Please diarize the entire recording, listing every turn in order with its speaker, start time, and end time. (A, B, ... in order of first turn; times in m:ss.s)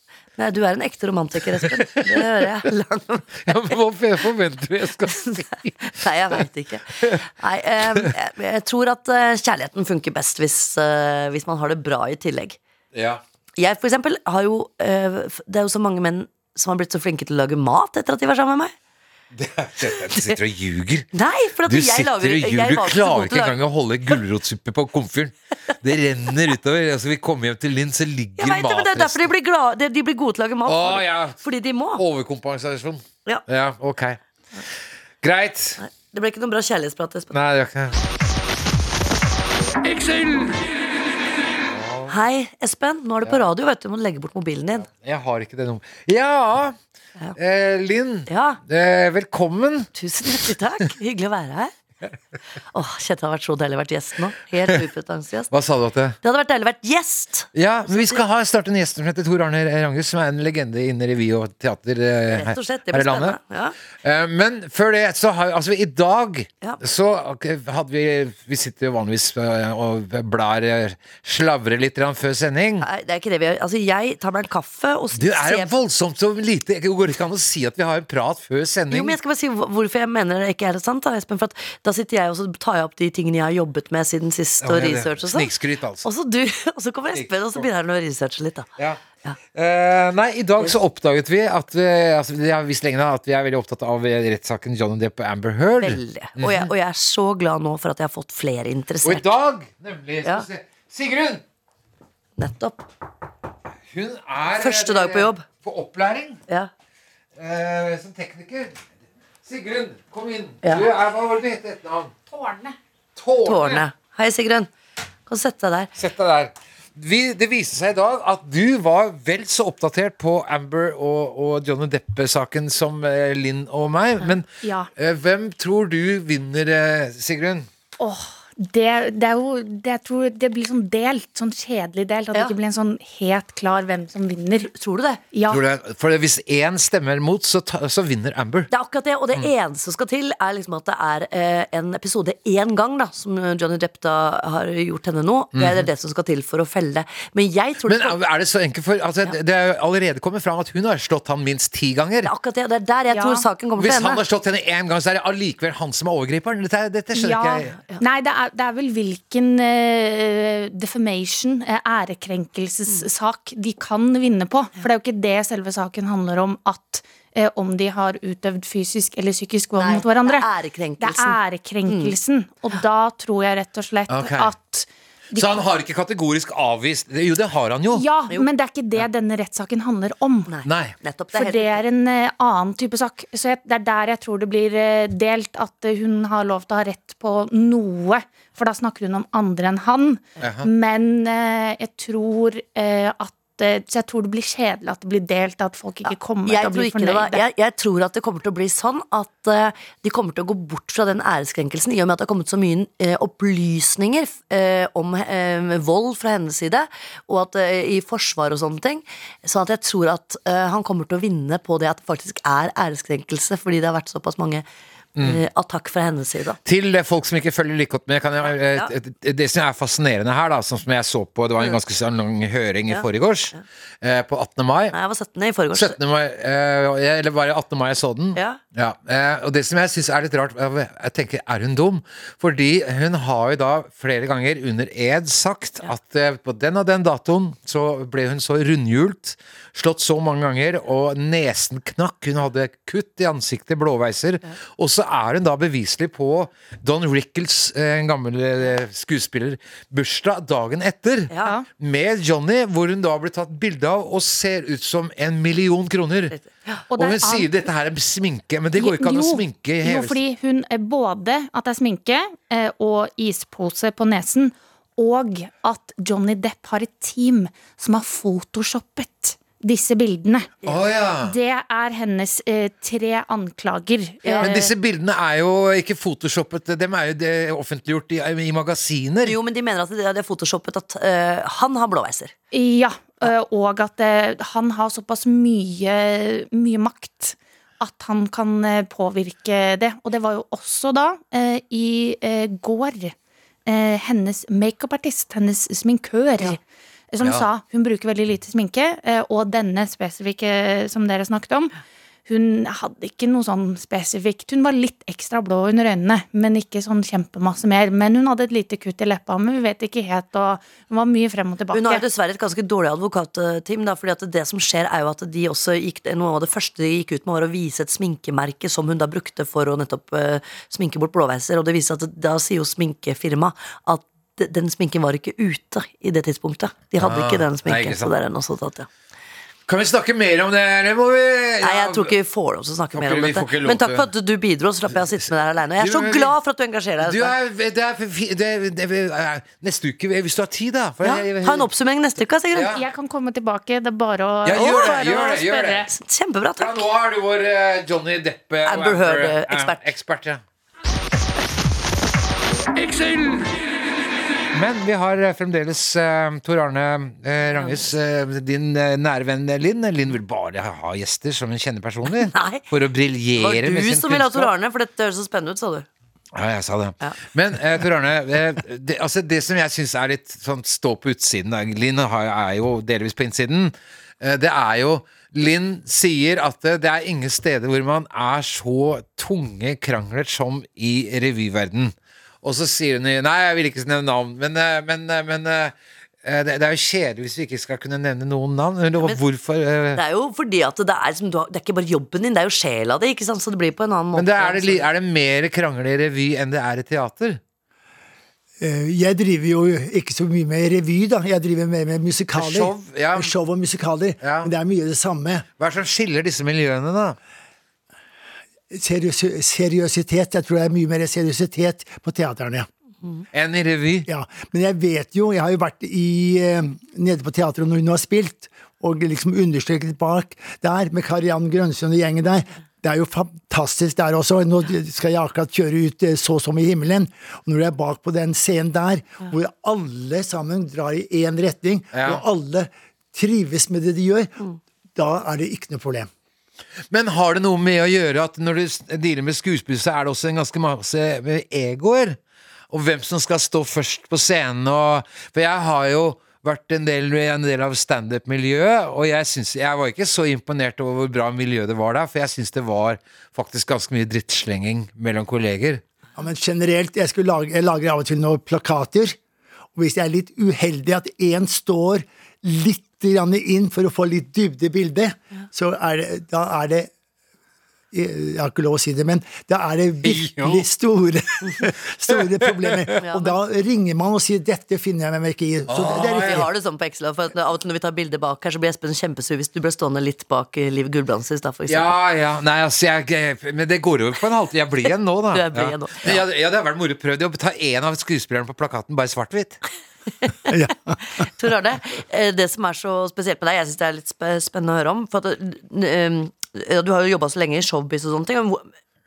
0:00.4-0:03.7 A
0:01.6-0:02.5 B
0:03.4-0:06.4 B
0:05.3-0:12.6 A
0:12.9-0:13.2 B
0:13.6-0:18.7 A
0:19.3-0:21.1 B
0:21.1-0:23.6 A
0:21.6-0:29.3 B
0:28.4-0:32.0 A
0:30.6-0:31.4 B
0:32.0-0:34.2 B
0:35.2-0:35.8 B
0:35.8-0:37.3 A
0:37.3-0:38.0 B
0:41.7-0:42.2 B
0:42.1-0:44.8 A
0:44.8-0:46.8 B
0:47.4-0:49.9 B
0:48.3-0:48.6 A
0:50.0-0:51.7 A
0:52.7-0:55.5 A
0:55.5-0:56.2 B
0:56.2-0:58.2 A
0:57.5-1:03.4 B
1:02.3-1:03.8 A
1:04.0-1:12.9 B
1:12.8-1:15.7 A
1:15.1-1:19.2 B
1:18.9-1:25.5 A
1:24.6-1:26.0 B
1:26.0-1:28.7 A
1:27.1-1:27.7 B
1:29.5-1:36.7 B
1:35.8-1:39.3 A
1:39.0-1:41.4 B
1:42.4-1:42.9 A
1:43.9-1:46.4 B
1:44.5-1:45.4 A
1:47.4-1:48.8 B
1:49.4-1:52.1 B
1:50.6-1:50.9 A
1:52.3-1:52.7 C
1:53.2-1:53.8 B
1:53.4-1:54.7 A
1:55.3-1:55.9 A
1:56.0-2:07.7 B
2:04.6-2:04.9 C
2:08.0-2:14.7 C
2:14.7-2:15.2 A
2:15.3-2:15.6 C
2:15.5-2:18.7 B
2:18.7-2:28.2 A
2:25.5-2:25.9 B
2:27.8-2:32.3 B
2:32.2-2:34.2 A
2:33.1-2:33.4 C
2:33.8-2:37.7 B
2:37.1-2:50.5 C
2:49.8-2:52.2 A
2:51.0-2:55.6 C
2:54.1-2:54.5 B
2:55.3-2:58.0 B
2:57.9-3:00.5 C
3:00.5-3:01.8 A
3:00.6-3:00.9 B
3:01.3-3:17.4 C
3:10.4-3:10.7 B
3:16.0-3:34.6 A
3:35.2-3:36.6 A
3:36.6-3:44.9 B
3:38.4-3:38.9 A
3:42.9-3:43.6 A
3:44.9-3:46.0 A
3:45.7-4:16.3 B
4:16.3-4:16.8 A
4:16.9-4:17.5 C
4:17.0-4:20.2 B
4:18.8-4:30.5 C
4:30.7-4:31.3 B
4:31.2-4:34.7 C
4:34.2-4:34.6 A
4:34.4-4:39.4 B
4:39.2-4:42.3 A
4:42.5-4:53.1 C
4:53.6-4:56.6 C
4:57.1-5:01.7 C
4:57.2-4:57.4 B
5:02.3-5:12.0 C
5:11.7-5:28.9 A
5:27.0-5:28.1 B
5:29.7-5:32.1 B
5:31.6-5:37.3 A
5:32.9-5:34.1 B
5:35.8-5:36.3 B
5:37.0-5:41.7 B
5:41.0-5:42.7 A
5:42.5-5:42.8 B
5:42.6-5:45.9 C
5:44.4-5:45.8 B
5:44.5-5:46.8 A
5:46.6-5:50.4 B
5:48.6-5:49.8 A
5:54.5-6:04.5 B
6:02.2-6:02.6 A
6:03.4-6:05.9 A
6:06.3-6:30.0 B
6:29.9-6:34.9 A
6:34.1-6:37.4 B
6:38.6-6:45.4 D
6:42.3-6:43.3 B
6:44.2-6:44.5 B
6:45.6-6:47.2 B
6:48.7-6:52.7 D
6:53.3-6:54.1 B
6:54.1-7:14.4 D
7:11.9-7:12.2 B
7:15.0-7:16.1 D
7:16.9-7:22.2 B
7:22.7-7:35.8 B
7:36.2-7:39.2 D
7:39.8-7:46.9 D
7:47.9-7:56.5 D
7:50.0-7:50.6 B
7:52.2-7:52.9 B
7:53.0-7:53.4 A
7:55.7-7:56.5 B
7:55.9-8:01.9 A
8:01.7-8:09.6 B
8:05.3-8:06.2 A
8:10.2-8:10.6 A
8:10.5-8:11.0 D
8:11.2-8:18.7 A